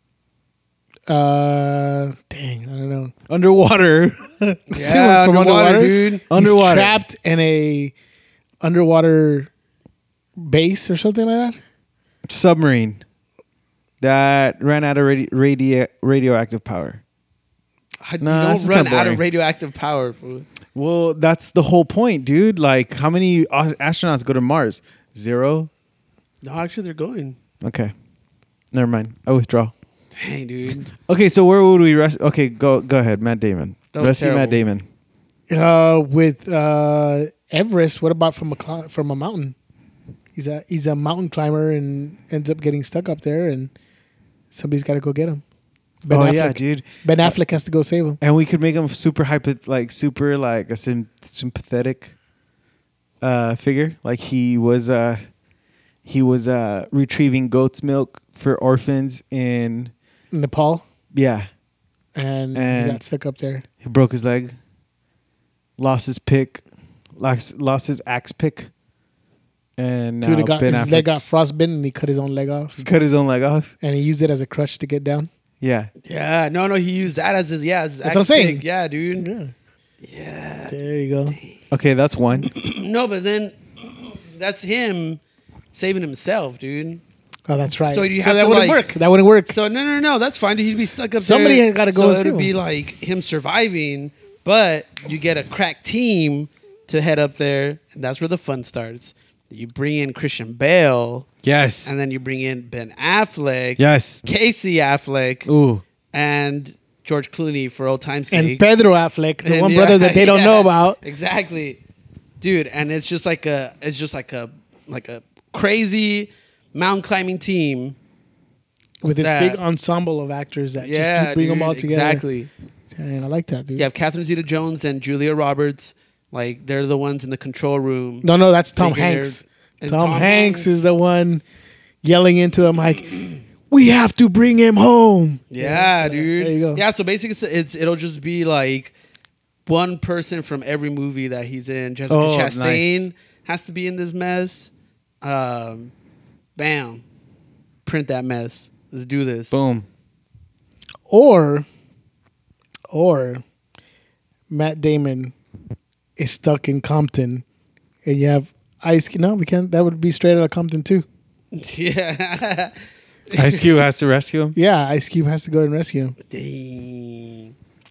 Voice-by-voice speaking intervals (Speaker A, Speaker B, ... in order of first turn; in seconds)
Speaker A: 1.1-3.1, 4.7-7.9, 8.6-9.5, 10.4-11.6, 35.5-39.5, 40.3-43.7, 44.5-45.4, 46.0-48.2, 60.3-60.8, 62.1-63.6, 70.2-72.8, 73.8-75.3, 78.0-78.6, 79.2-79.5, 80.7-81.4, 87.5-89.5, 91.2-92.5, 108.3-111.0, 119.0-122.2, 122.9-123.8, 128.2-131.4, 132.0-136.8, 151.1-151.7, 152.9-153.4, 154.5-155.3, 156.2-157.4, 158.0-161.1, 164.5-166.1
Speaker B: 3.3-4.3, 6.3-7.0, 12.3-13.0, 14.0-17.0, 18.2-19.2, 20.7-25.7, 27.6-27.9, 28.7-29.7, 31.0-34.8, 46.1-47.3, 48.2-52.1, 53.2-55.2, 56.0-59.9, 61.1-61.5, 62.5-63.0, 63.8-64.5, 65.8-66.6, 67.2-68.7, 69.8-71.1, 72.8-73.7, 75.6-75.9, 81.7-82.5, 101.4-101.9, 103.8-104.2, 105.5-105.8, 142.1-143.1, 149.5-149.9, 163.3-164.6
Speaker C: 4.7-6.2, 18.0-20.4, 26.4-27.4, 30.1-30.9, 33.9-34.6, 76.0-79.3, 80.0-80.8, 81.3-81.5, 82.4-85.2, 85.7-87.0, 87.9-88.9, 89.5-101.3, 101.8-105.5, 106.1-108.6, 109.4-111.8, 112.4-118.0, 119.2-119.6, 120.8-122.5, 123.8-128.2, 128.8-130.7, 135.5-138.9, 139.7-144.7, 145.2-145.9, 146.6-147.0, 147.8-149.6, 161.5-162.8, 163.3-163.7, 166.3-167.5